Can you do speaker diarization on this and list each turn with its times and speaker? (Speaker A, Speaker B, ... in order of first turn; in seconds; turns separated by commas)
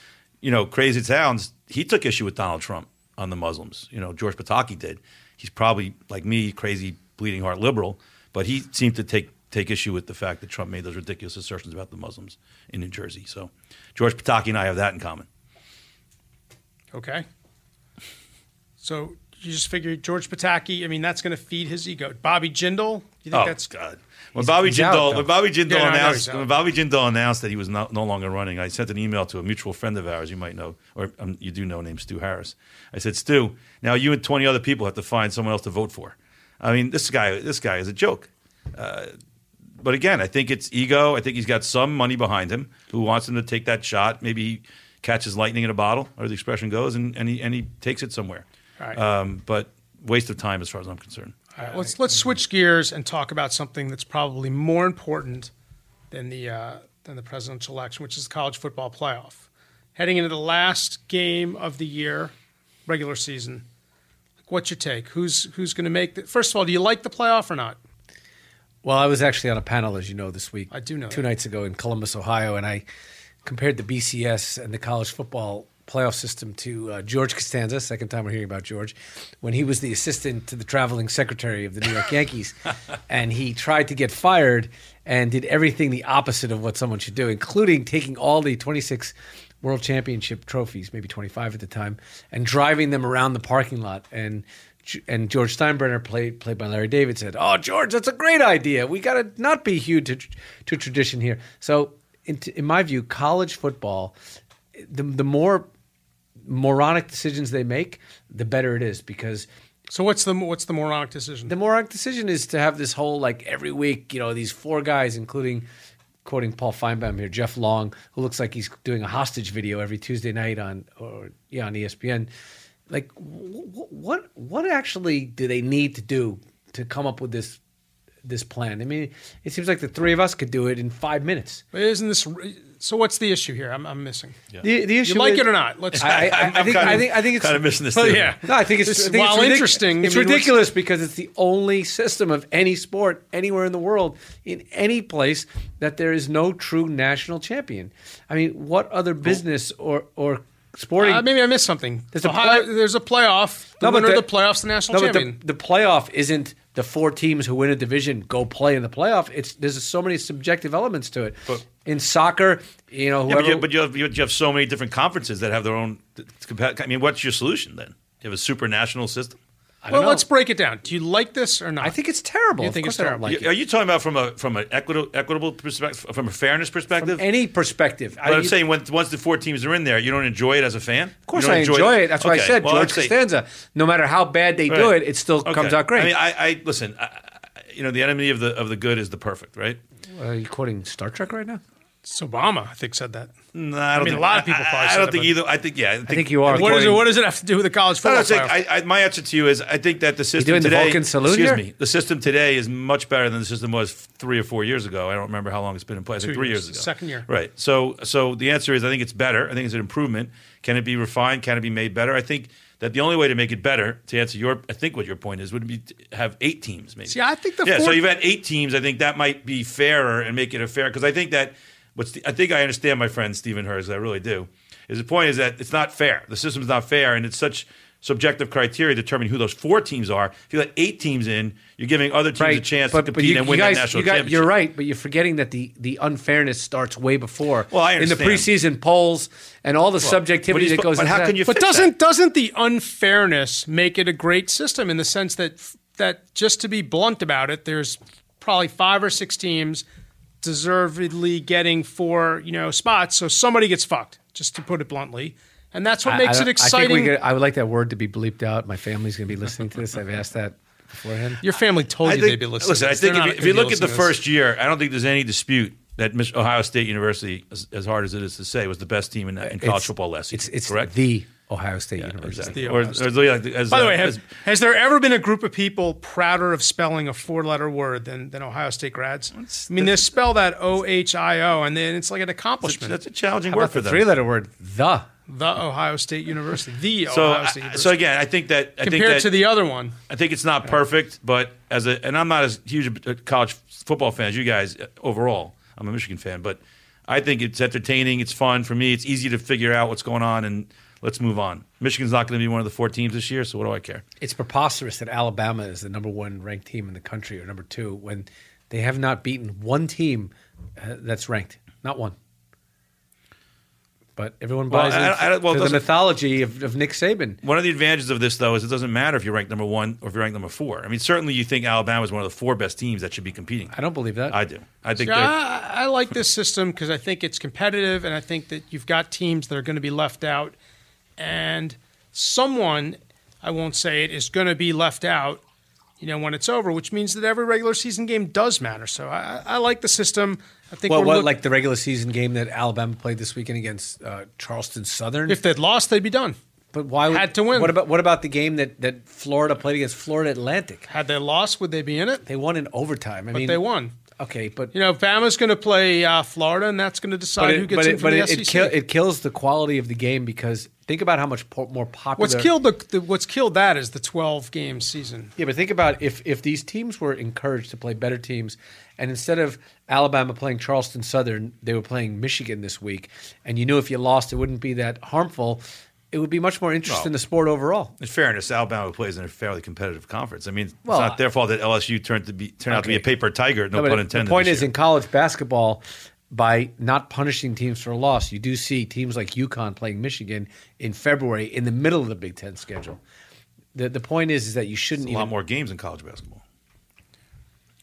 Speaker A: 0.4-15.3, Speaker B: 16.9-17.2, Speaker B: 18.8-23.6, Speaker A: 23.3-39.1, Speaker C: 24.4-25.3, Speaker B: 25.7-26.5, Speaker A: 39.8-51.4, Speaker B: 51.5-55.5, Speaker B: 56.1-62.3, Speaker B: 62.9-63.6, Speaker B: 64.5-67.8, Speaker C: 68.8-72.8, Speaker B: 70.7-71.2, Speaker C: 73.4-82.6, Speaker C: 83.1-104.2, Speaker C: 104.7-105.7, Speaker C: 106.4-109.5, Speaker B: 109.9-111.5, Speaker C: 111.5-115.6, Speaker C: 116.2-122.3, Speaker C: 122.9-127.6, Speaker C: 128.2-131.6, Speaker B: 131.7-134.4, Speaker C: 134.6-137.7, Speaker B: 135.0-136.8, Speaker A: 136.0-138.3, Speaker B: 137.9-140.6, Speaker C: 138.4-151.2, Speaker B: 151.0-155.3, Speaker C: 152.1-152.7, Speaker C: 153.8-154.3, Speaker C: 154.9-163.7, Speaker A: 163.3-169.4, Speaker C: 169.8-170.2, Speaker B: 169.9-171.9, Speaker C: 171.8-173.5, Speaker B: 172.6-173.2, Speaker A: 173.2-177.2, Speaker C: 177.0-178.6, Speaker A: 178.2-183.1, Speaker C: 181.3-186.1, Speaker A: 184.7-189.8, Speaker C: 190.1-191.6, Speaker B: 192.0-193.3, Speaker A: 193.5-197.0, Speaker B: 193.9-195.3, Speaker C: 196.1-197.1, Speaker B: 196.5-198.5, Speaker A: 198.0-234.5, Speaker C: 200.4-201.6, Speaker B: 206.2-207.2, Speaker B: 217.1-218.0, Speaker C: 232.4-241.4, Speaker A: 237.7-238.5, Speaker A: 240.0-241.9, Speaker B: 241.4-249.8, Speaker B: 250.4-257.1, Speaker C: 256.1-261.4, Speaker B: 261.4-264.1, Speaker A: 262.0-270.9, Speaker C: 269.4-272.7, Speaker A: 272.0-274.2, Speaker B: 272.5-273.2, Speaker B: 273.7-283.0, Speaker A: 279.3-280.1, Speaker A: 282.6-284.1, Speaker C: 283.5-285.1, Speaker B: 285.3-287.9, Speaker A: 287.1-289.3, Speaker B: 288.8-289.9, Speaker A: 290.1-304.0, Speaker C: 304.2-312.1, Speaker C: 314.1-317.4, Speaker A: 314.7-315.9, Speaker A: 317.4-323.7, Speaker C: 323.7-324.4, Speaker A: 324.3-325.3, Speaker B: 325.0-330.5, Speaker B: 331.2-335.4, Speaker B: 336.0-341.3, Speaker C: 340.9-345.4, Speaker B: 345.3-346.4, Speaker C: 346.7-350.8, Speaker B: 347.1-347.8, Speaker B: 350.9-352.2, Speaker C: 352.2-354.7, Speaker B: 353.3-354.0, Speaker B: 354.7-358.8, Speaker C: 357.4-362.5, Speaker B: 362.2-365.3, Speaker C: 365.4-377.9, Speaker A: 378.0-384.7, Speaker C: 380.9-381.2, Speaker C: 382.7-383.1, Speaker C: 383.7-393.0, Speaker C: 393.7-395.3, Speaker A: 395.0-396.4